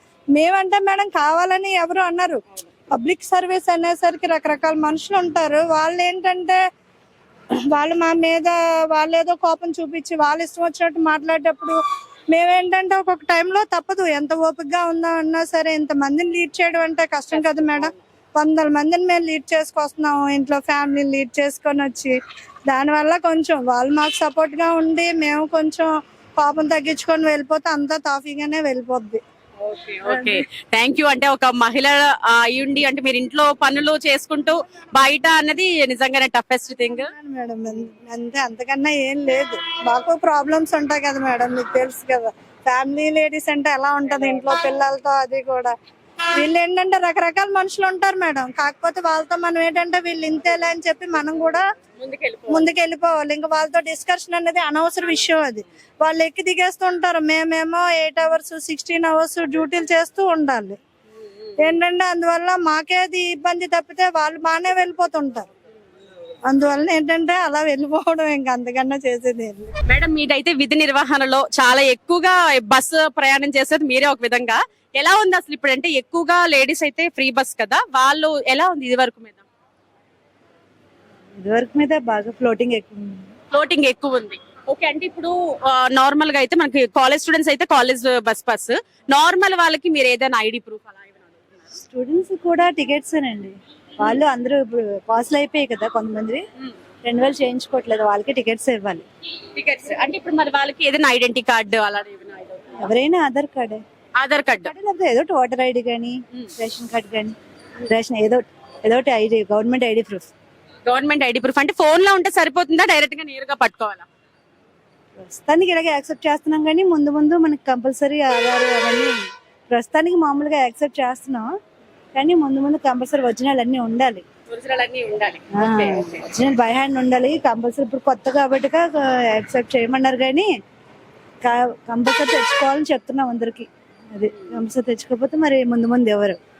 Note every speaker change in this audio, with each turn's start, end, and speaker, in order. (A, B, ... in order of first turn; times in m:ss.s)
0:00.3-0:06.6 A
0:07.7-0:11.8 A
0:12.3-0:22.1 A
0:17.3-0:18.0 B
0:22.7-0:29.2 A
0:29.6-0:37.1 B
0:30.0-0:30.4 A
0:36.7-0:45.7 A
0:46.3-0:51.6 A
0:52.0-0:52.7 B
0:52.5-1:00.8 A
1:01.6-1:05.5 A
1:06.5-1:09.7 A
1:09.9-1:19.4 B
1:21.4-1:23.3 C
1:23.5-1:31.7 B
1:31.8-1:36.4 C
1:37.0-1:39.0 C
1:39.5-1:42.9 B
1:42.8-1:43.8 C
1:44.2-1:44.7 B
1:44.6-1:47.3 C
1:47.9-1:50.3 C
1:50.8-1:54.1 B
1:55.2-1:59.2 C
1:59.7-2:01.5 C
2:02.1-2:04.2 C
2:04.5-2:06.2 B
2:05.5-2:10.5 C
2:11.4-2:16.4 C